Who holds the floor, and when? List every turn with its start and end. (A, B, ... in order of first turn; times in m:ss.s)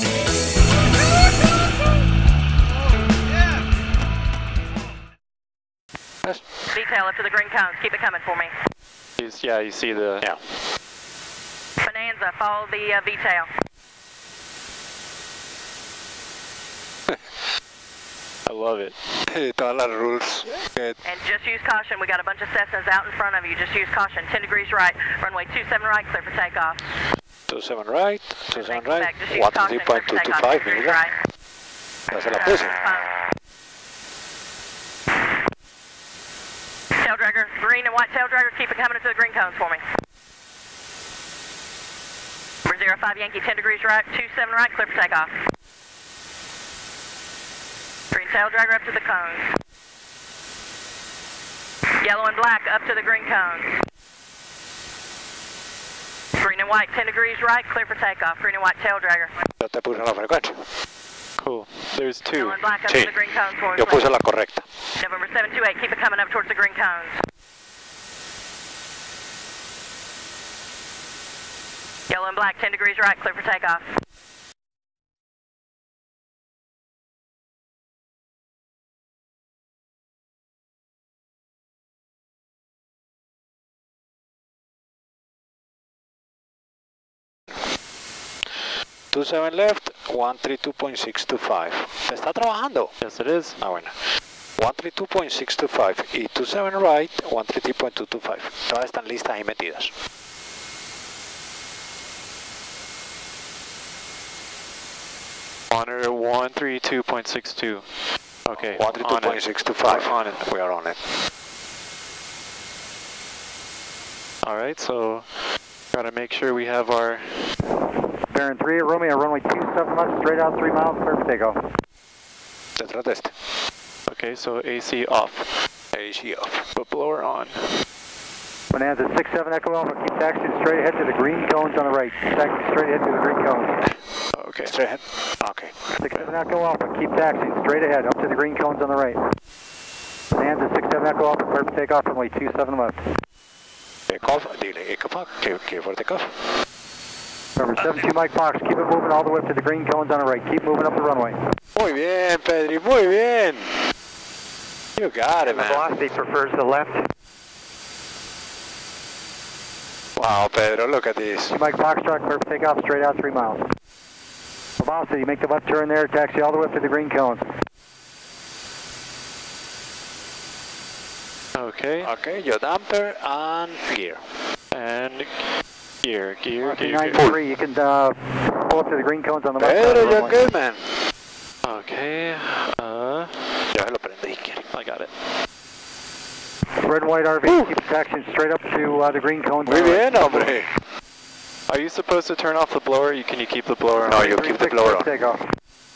0:06.2-0:06.5 A
0:06.7-0:08.5 B
0:09.2-0:10.3 C
0:11.8-0:13.5 B
0:17.1-0:17.4 A
0:18.5-0:19.0 C
0:19.3-0:21.0 A
0:21.0-0:27.0 B
0:27.5-0:31.0 A
0:28.6-0:31.2 B
0:32.1-0:32.8 A
0:32.3-0:33.2 B
0:37.0-0:39.8 B
0:42.6-0:45.3 B
0:48.1-0:49.5 B
0:52.0-0:53.8 B
0:56.4-0:59.4 B
0:59.6-1:00.7 A
1:01.4-1:02.6 C
1:02.3-1:04.1 B
1:02.9-1:03.2 A
1:03.8-1:04.7 A
1:05.0-1:07.2 B
1:12.1-1:13.9 B
1:28.5-1:32.9 A
1:33.0-1:33.6 C
1:33.6-1:39.9 A
1:45.7-1:47.9 C
1:48.5-1:50.4 C
1:48.7-1:51.0 A
1:54.4-1:55.3 C
1:55.9-1:57.6 C
1:58.2-2:01.6 D
2:02.8-2:03.4 A
2:04.1-2:05.6 C
2:05.9-2:06.6 A
2:06.8-2:07.6 C
2:08.7-2:13.8 D
2:14.3-2:14.7 C
2:14.7-2:16.0 A
2:16.0-2:19.2 D
2:20.3-2:23.0 D
2:24.1-2:26.4 A
2:27.6-2:31.4 D
2:31.8-2:33.8 A
2:35.0-2:36.0 A
2:40.2-2:41.6 A
2:41.5-2:43.6 D
2:44.8-2:47.5 D
2:51.6-2:52.1 C
2:52.0-2:54.4 A
2:54.7-2:55.5 C
2:56.0-2:57.2 C
2:56.6-3:00.4 D
2:59.6-3:01.0 A
3:01.6-3:03.6 C
3:03.7-3:04.6 A
3:04.7-3:05.1 C
3:06.8-3:10.6 D
3:07.4-3:07.7 A
3:09.7-3:10.7 A
3:11.7-3:14.2 C
3:14.0-3:15.1 A
3:14.2-3:15.4 D